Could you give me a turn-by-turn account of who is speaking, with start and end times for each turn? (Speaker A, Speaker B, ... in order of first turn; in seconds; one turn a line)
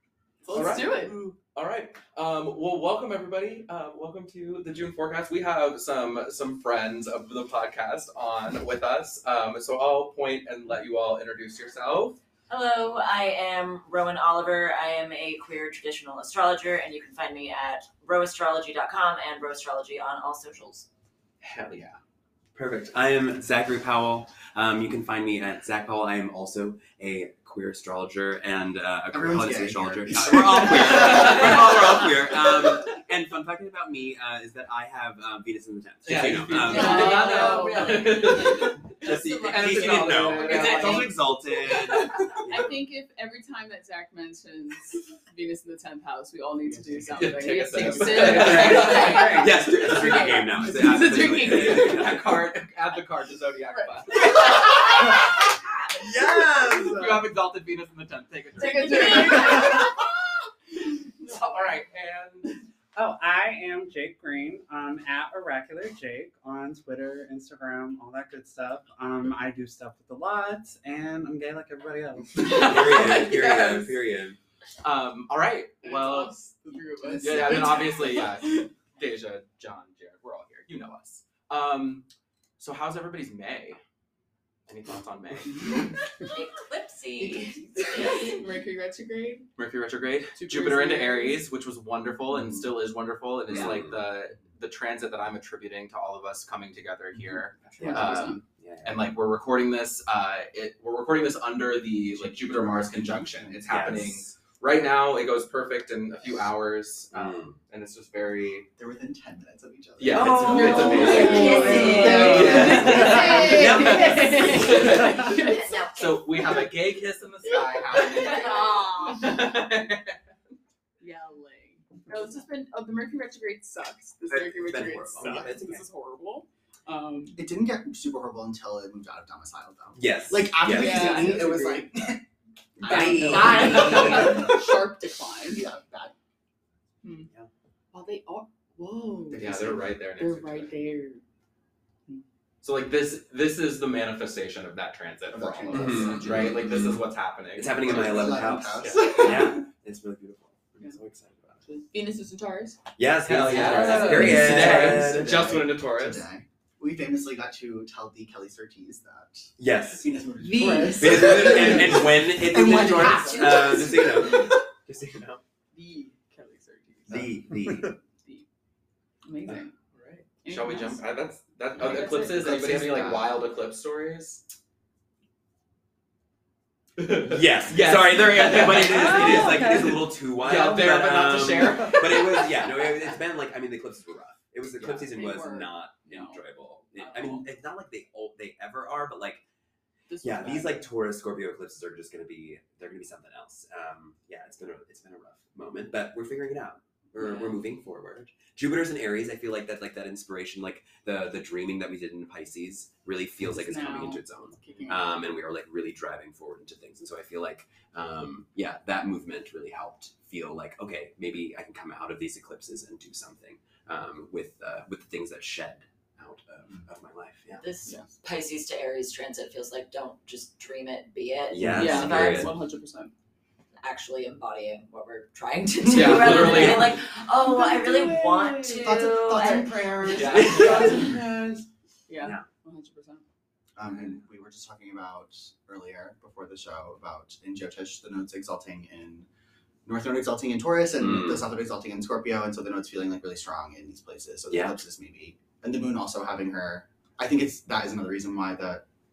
Speaker A: 0.4-1.2
Speaker B: 0.5-12.2
Speaker C: 12.5-20.9
Speaker B: 21.4-22.0
Speaker D: 22.6-37.4
Speaker E: 29.1-31.4
Speaker B: 30.8-31.8
Speaker B: 36.0-41.1
Speaker A: 36.5-52.4
Speaker C: 36.5-38.7
Speaker D: 39.0-42.9
Speaker E: 46.7-47.3
Speaker B: 47.1-50.3
Speaker D: 48.0-52.4
Speaker F: 48.8-49.6
Speaker B: 51.4-55.4
Speaker A: 53.7-55.3
Speaker D: 54.4-54.7
Speaker D: 56.0-57.1
Speaker F: 56.6-57.2
Speaker B: 56.8-60.1
Speaker A: 58.5-60.1
Speaker A: 60.7-61.8
Speaker B: 61.2-62.6
Speaker F: 63.0-72.5
Speaker B: 72.4-73.7
Speaker D: 72.4-74.4
Speaker A: 72.5-73.9
Speaker B: 74.8-76.4
Speaker A: 75.8-78.7
Speaker E: 77.0-77.9
Speaker B: 77.2-82.1
Speaker B: 82.6-83.8
Speaker B: 84.7-86.0
Speaker C: 86.3-88.4
Speaker A: 87.2-89.5
Speaker B: 89.6-108.7
Speaker A: 90.4-91.4
Speaker D: 93.5-94.0
Speaker E: 97.7-98.1
Speaker A: 97.8-98.4
Speaker D: 97.8-99.2
Speaker E: 102.1-104.0
Speaker D: 103.7-104.2
Speaker D: 107.1-107.5
Speaker E: 108.8-113.8
Speaker B: 110.0-120.2
Speaker D: 110.1-114.9
Speaker A: 110.5-115.8
Speaker C: 110.5-113.5
Speaker C: 114.4-116.3
Speaker A: 117.5-119.6
Speaker C: 118.2-119.2
Speaker A: 121.0-127.4
Speaker D: 124.3-125.9
Speaker E: 125.2-125.5
Speaker E: 127.4-132.2
Speaker D: 129.9-131.6
Speaker A: 130.7-131.8
Speaker E: 132.8-134.8
Speaker A: 132.8-135.7
Speaker D: 132.9-134.0
Speaker E: 135.5-136.1
Speaker A: 137.0-137.3
Speaker A: 137.9-141.2
Speaker E: 139.3-139.8
Speaker B: 139.4-140.7
Speaker B: 142.6-149.3
Speaker E: 145.3-146.9
Speaker D: 145.7-147.0
Speaker D: 147.6-151.7
Speaker E: 147.8-149.7
Speaker A: 151.7-152.8
Speaker D: 153.0-155.6
Speaker B: 153.2-156.2
Speaker E: 153.5-164.6
Speaker D: 159.6-160.2
Speaker A: 160.4-163.8
Speaker D: 160.9-165.4
Speaker C: 162.9-164.0
Speaker A: 165.7-167.3
Speaker D: 167.1-168.0
Speaker A: 168.1-168.4
Speaker A: 169.2-169.7
Speaker B: 169.9-174.4
Speaker A: 170.4-171.1
Speaker A: 171.8-172.4
Speaker E: 171.8-173.4
Speaker B: 177.0-182.6
Speaker D: 177.2-189.4
Speaker A: 179.0-179.9
Speaker F: 179.3-180.0
Speaker A: 182.2-183.0
Speaker B: 184.8-185.1
Speaker A: 185.1-186.4
Speaker A: 187.0-187.4
Speaker A: 190.1-190.9
Speaker D: 190.2-217.7
Speaker A: 197.2-197.6
Speaker A: 203.4-205.1
Speaker C: 217.6-222.6
Speaker D: 221.5-222.6
Speaker A: 221.6-223.1
Speaker C: 223.8-229.8
Speaker B: 225.9-226.9
Speaker E: 226.1-226.9
Speaker E: 228.6-231.2
Speaker B: 230.1-231.6
Speaker D: 230.2-231.1
Speaker A: 230.3-231.1
Speaker A: 232.1-233.2
Speaker D: 232.2-232.5
Speaker E: 233.8-239.3
Speaker E: 239.8-248.8
Speaker D: 241.0-241.4
Speaker D: 244.5-244.8